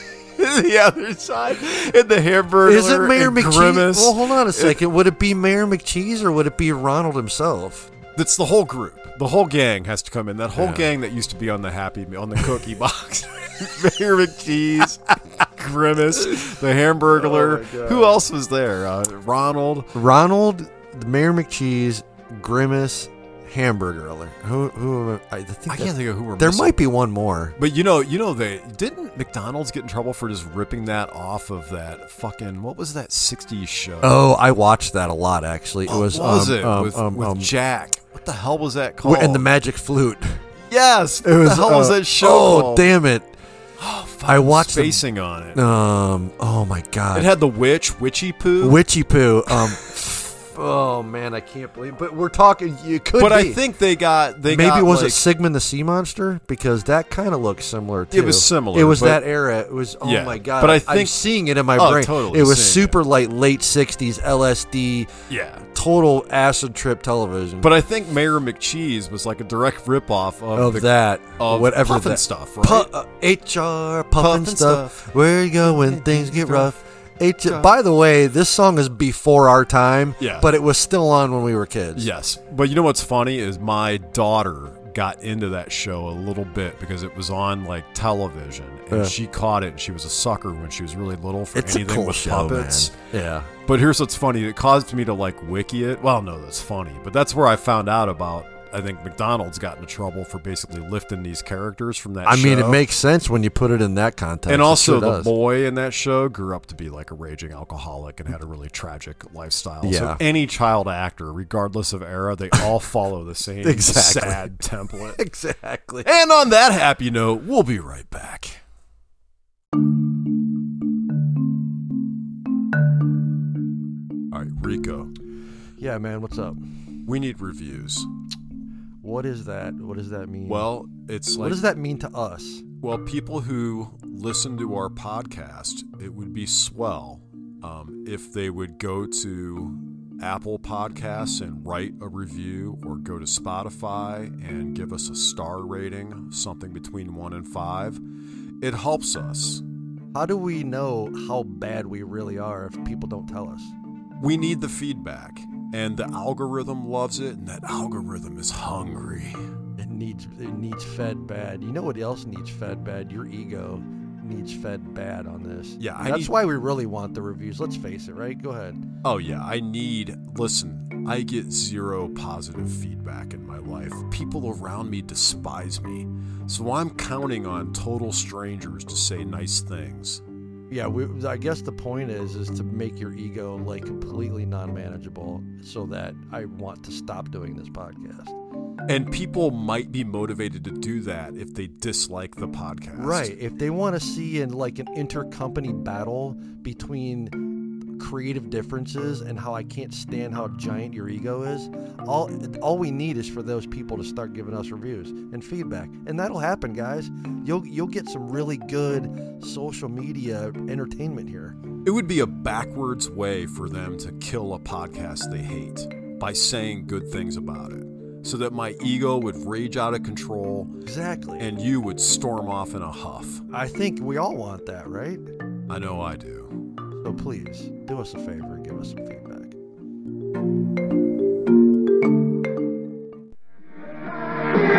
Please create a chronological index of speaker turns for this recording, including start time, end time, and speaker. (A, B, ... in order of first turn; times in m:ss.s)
0:00.4-0:04.8 A
0:02.6-0:07.9 B
0:08.2-0:19.9 A
0:10.6-0:10.9 B
0:17.1-0:18.2 B
0:19.9-0:27.6 B
0:25.7-0:26.8 A
0:27.6-0:34.2 A
0:34.0-0:37.5 B
0:35.8-0:39.4 A
0:39.0-0:40.4 B
0:40.7-0:42.9 A
0:41.2-0:43.3 B
0:43.8-0:45.6 A
0:44.2-0:45.0 B
0:45.5-0:47.3 B
0:47.1-0:48.8 A
0:48.6-0:53.6 B
0:53.2-0:55.2 A
0:54.5-1:05.1 B
0:58.1-0:59.2 A
1:00.0-1:03.0 A
1:05.3-1:05.6 A
1:05.7-1:07.7 B
1:07.6-1:12.9 A
1:10.5-1:22.1 B
1:14.2-1:16.7 A
1:17.4-1:17.7 A
1:20.2-1:20.5 A
1:22.0-1:32.9 A
1:31.5-1:33.5 B
1:33.6-1:42.8 A
1:42.2-1:45.3 B
1:44.5-1:55.2 A
1:49.8-1:50.2 B
1:53.6-1:54.5 B
1:55.1-1:56.1 B
1:56.0-1:58.6 A
2:04.3-2:05.1 A
2:05.8-2:06.6 B
2:07.0-2:08.1 A
2:09.0-2:10.7 B
2:10.5-2:11.6 A
2:11.3-2:12.6 B
2:12.8-2:28.0 A
2:28.6-2:29.6 A
2:30.1-2:33.8 B
2:34.2-2:39.5 A
2:39.8-2:48.8 B
2:45.8-2:46.3 A
2:49.0-3:00.2 A
3:00.7-3:08.4 B
3:08.9-3:13.3 A
3:12.9-3:31.6 B
3:31.8-3:40.7 A
3:40.8-3:41.5 B
3:41.4-3:43.4 A
3:43.5-3:45.2 B
3:45.7-3:46.5 A
3:47.0-3:49.6 B